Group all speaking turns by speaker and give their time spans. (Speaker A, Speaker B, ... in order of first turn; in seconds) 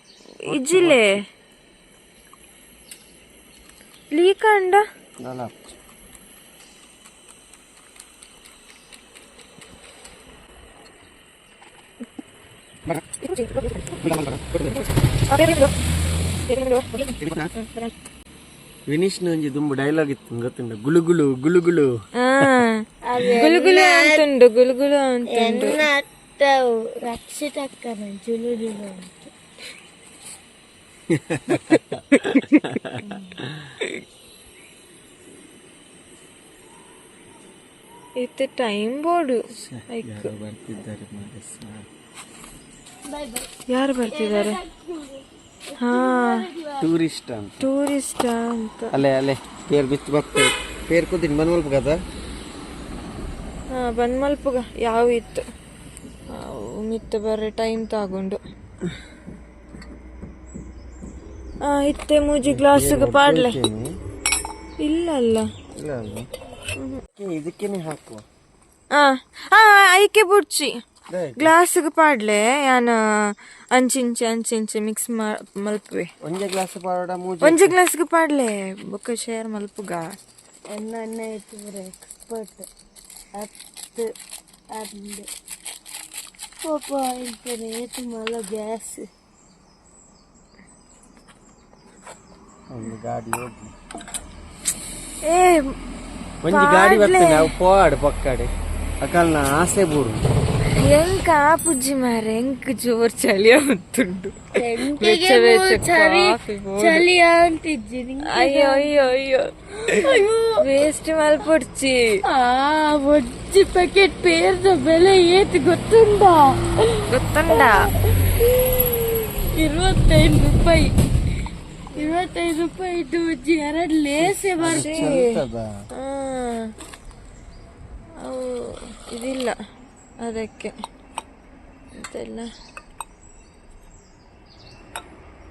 Speaker A: 0.4-1.2, 4.1-4.8, 13.2-14.1, 14.7-15.7, 16.5-17.9, 22.2-22.8, 23.4-25.9, 31.7-33.2, 38.2-40.3, 43.7-44.6, 45.8-46.5, 47.6-49.0, 53.7-55.4, 56.3-58.4, 61.6-63.6, 64.8-65.5, 66.8-67.0, 68.9-70.7, 71.4-76.1, 77.4-80.2, 95.2-95.8, 96.5-97.5, 100.8-107.0, 108.3-112.2, 117.1-117.9, 124.7-125.4, 126.0-126.7, 128.2-129.6, 130.2-130.7, 132.0-132.5
Speaker B: 0.5-1.2, 5.2-5.8, 14.0-14.8, 17.2-17.5, 18.9-22.5, 31.1-33.7, 39.5-41.9, 46.8-47.7, 48.9-52.0, 62.5-63.9, 65.8-66.3, 67.1-68.2, 71.1-71.5, 76.2-77.8, 92.7-93.7, 96.4-100.2, 124.2-125.8
Speaker C: 23.1-24.2, 25.3-29.3, 43.1-43.5, 44.1-46.9, 80.7-82.7, 83.4-84.1, 84.7-85.3, 86.6-89.1, 104.5-108.9, 109.8-110.6, 112.3-121.0, 121.9-125.1